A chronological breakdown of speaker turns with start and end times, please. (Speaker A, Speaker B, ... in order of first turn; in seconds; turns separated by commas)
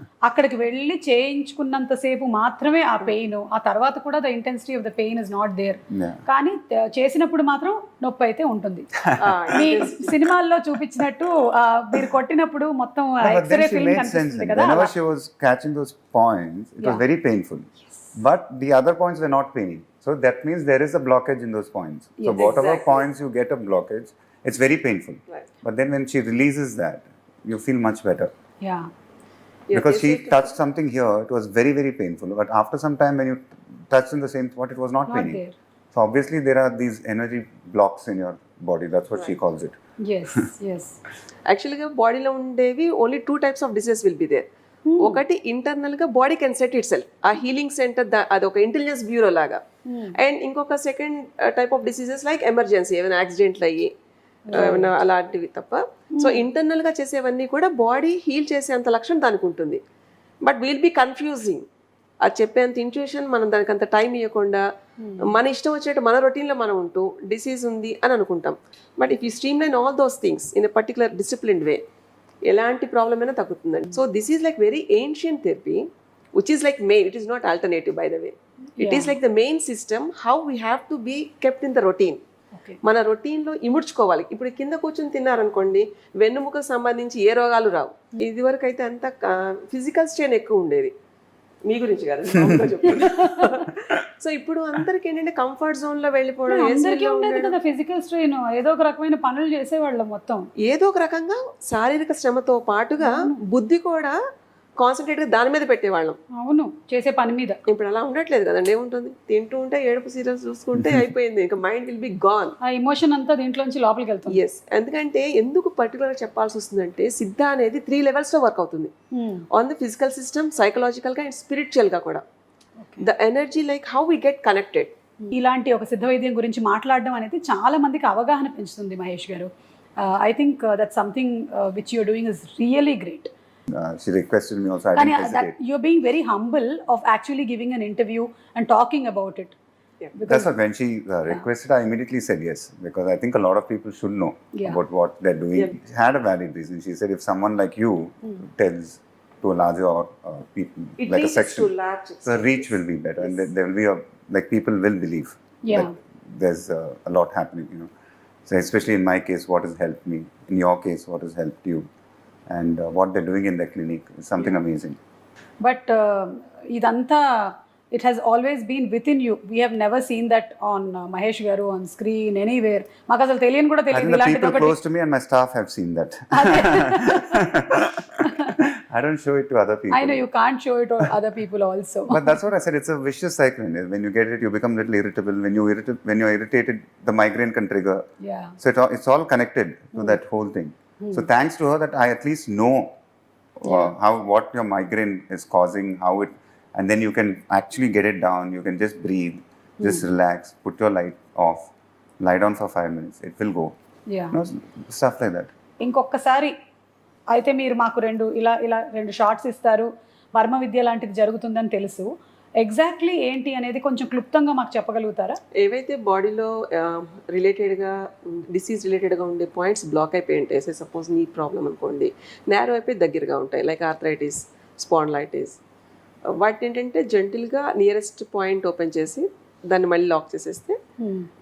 Speaker A: 0.2-8.9, Speaker B: 5.9-6.2, Speaker B: 9.0-9.6, Speaker C: 9.2-10.2, Speaker A: 9.5-14.9, Speaker B: 13.2-28.3, Speaker A: 22.2-22.6, Speaker C: 22.4-23.1, Speaker A: 28.6-28.9, Speaker C: 29.7-30.5, Speaker B: 29.7-35.4, Speaker A: 35.1-35.5, Speaker B: 35.9-39.8, Speaker A: 40.0-41.0, Speaker C: 41.5-44.5, Speaker A: 44.9-45.2, Speaker C: 45.0-49.6, Speaker A: 49.9-50.2, Speaker C: 50.1-53.9, Speaker A: 54.5-54.9, Speaker C: 54.5-59.8, Speaker A: 56.1-56.4, Speaker C: 60.4-61.6, Speaker C: 62.2-64.6, Speaker A: 65.0-65.4, Speaker C: 65.2-71.8, Speaker C: 72.5-75.8, Speaker C: 76.4-82.2, Speaker A: 78.8-79.2, Speaker C: 82.8-90.9, Speaker C: 91.7-97.6, Speaker B: 92.4-92.6, Speaker A: 93.0-93.5, Speaker A: 96.5-100.5, Speaker C: 100.6-104.2, Speaker A: 103.0-103.4, Speaker C: 104.8-106.2, Speaker A: 106.3-107.6, Speaker C: 107.7-112.6, Speaker A: 112.6-114.4, Speaker C: 114.3-118.9, Speaker A: 119.1-119.5, Speaker C: 119.5-122.2, Speaker A: 122.8-123.1, Speaker C: 123.0-124.9, Speaker A: 125.2-133.3, Speaker B: 133.7-135.6, Speaker A: 135.0-139.6, Speaker A: 140.2-140.5, Speaker B: 140.3-151.7, Speaker A: 144.6-144.8, Speaker C: 151.0-153.5, Speaker B: 152.3-157.9, Speaker A: 155.7-155.9, Speaker B: 158.5-161.9, Speaker B: 162.5-165.0, Speaker A: 165.6-174.8, Speaker B: 173.9-180.2, Speaker A: 176.3-177.4, Speaker A: 178.2-178.6, Speaker A: 179.9-182.4, Speaker B: 182.1-188.1, Speaker A: 188.2-188.6, Speaker B: 188.6-192.9, Speaker A: 191.0-191.2, Speaker B: 193.6-201.7, Speaker A: 193.7-193.9, Speaker A: 199.8-200.1, Speaker B: 202.2-203.8, Speaker A: 204.1-204.4, Speaker B: 204.3-205.5, Speaker A: 205.8-206.5, Speaker A: 207.3-215.4, Speaker C: 215.6-225.6, Speaker C: 226.3-230.8, Speaker A: 231.0-231.3